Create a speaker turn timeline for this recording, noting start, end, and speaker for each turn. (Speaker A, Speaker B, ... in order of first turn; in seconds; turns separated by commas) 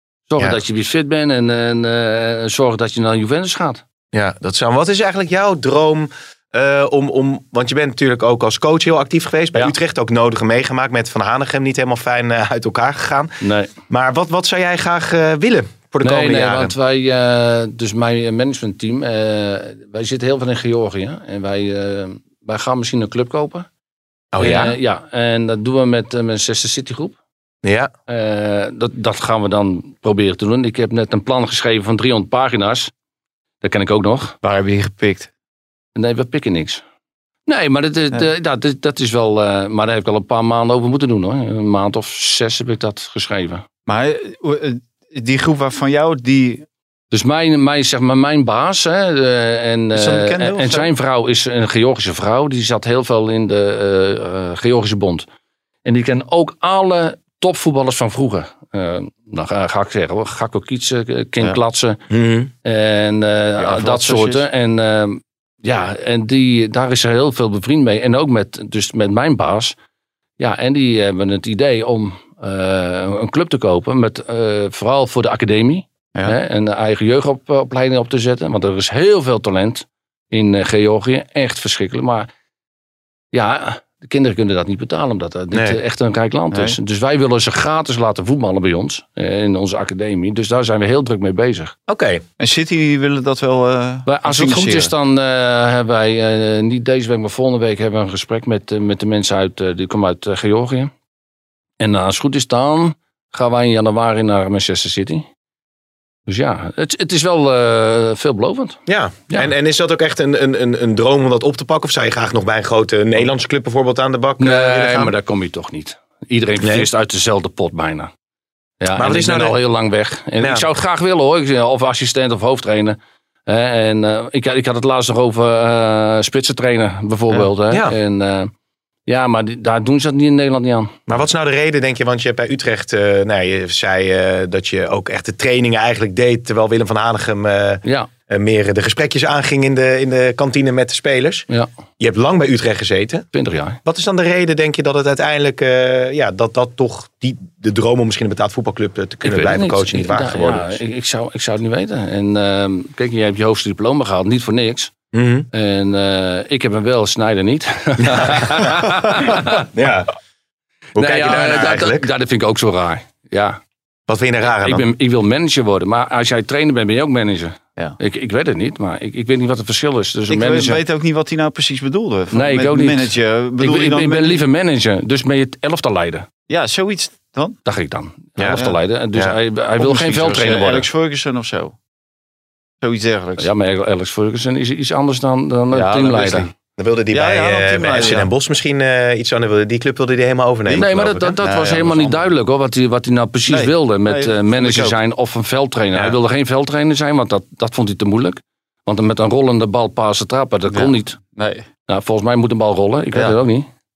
Speaker A: 0.3-3.8, Speaker B: 4.1-13.4, Speaker A: 13.4-13.7, Speaker B: 13.9-16.7, Speaker A: 16.0-23.7, Speaker B: 24.3-24.7, Speaker A: 24.4-27.1, Speaker B: 27.6-27.9, Speaker A: 28.1-32.9, Speaker A: 33.6-34.4, Speaker C: 34.4-35.3, Speaker A: 35.9-36.8, Speaker A: 37.5-43.6, Speaker C: 43.9-46.6, Speaker A: 47.1-55.3, Speaker C: 49.9-50.9, Speaker A: 55.8-62.0, Speaker B: 62.1-62.5, Speaker A: 62.6-69.8, Speaker C: 63.6-64.5, Speaker A: 70.4-82.3, Speaker A: 83.3-91.7, Speaker B: 85.5-85.8, Speaker C: 86.5-86.8, Speaker B: 91.9-92.2, Speaker C: 92.4-94.9, Speaker A: 94.0-100.9, Speaker A: 101.8-105.3, Speaker A: 106.3-108.8, Speaker B: 108.9-115.1, Speaker A: 114.4-118.1, Speaker B: 116.6-116.9, Speaker A: 118.8-128.5, Speaker B: 119.0-119.6, Speaker B: 120.4-120.7, Speaker A: 129.1-130.9, Speaker B: 131.1-141.5, Speaker A: 137.8-138.1, Speaker B: 142.0-143.2, Speaker A: 143.3-143.8, Speaker B: 143.8-150.8, Speaker A: 149.2-154.9, Speaker B: 155.1-155.5, Speaker A: 155.5-159.7, Speaker B: 158.1-158.7, Speaker B: 159.6-160.1, Speaker B: 160.9-162.1, Speaker A: 160.9-163.6, Speaker B: 164.1-164.8, Speaker A: 164.4-170.8, Speaker C: 170.3-174.4, Speaker A: 172.3-176.3, Speaker C: 176.5-177.6, Speaker A: 177.7-180.9, Speaker C: 179.8-181.8, Speaker C: 182.8-183.5, Speaker A: 183.4-186.5, Speaker C: 185.7-186.5, Speaker B: 186.8-191.4, Speaker C: 187.1-188.3, Speaker A: 190.7-201.2, Speaker C: 191.4-192.3, Speaker C: 193.5-194.9, Speaker C: 200.7-201.7, Speaker A: 201.9-203.7, Speaker C: 203.1-203.4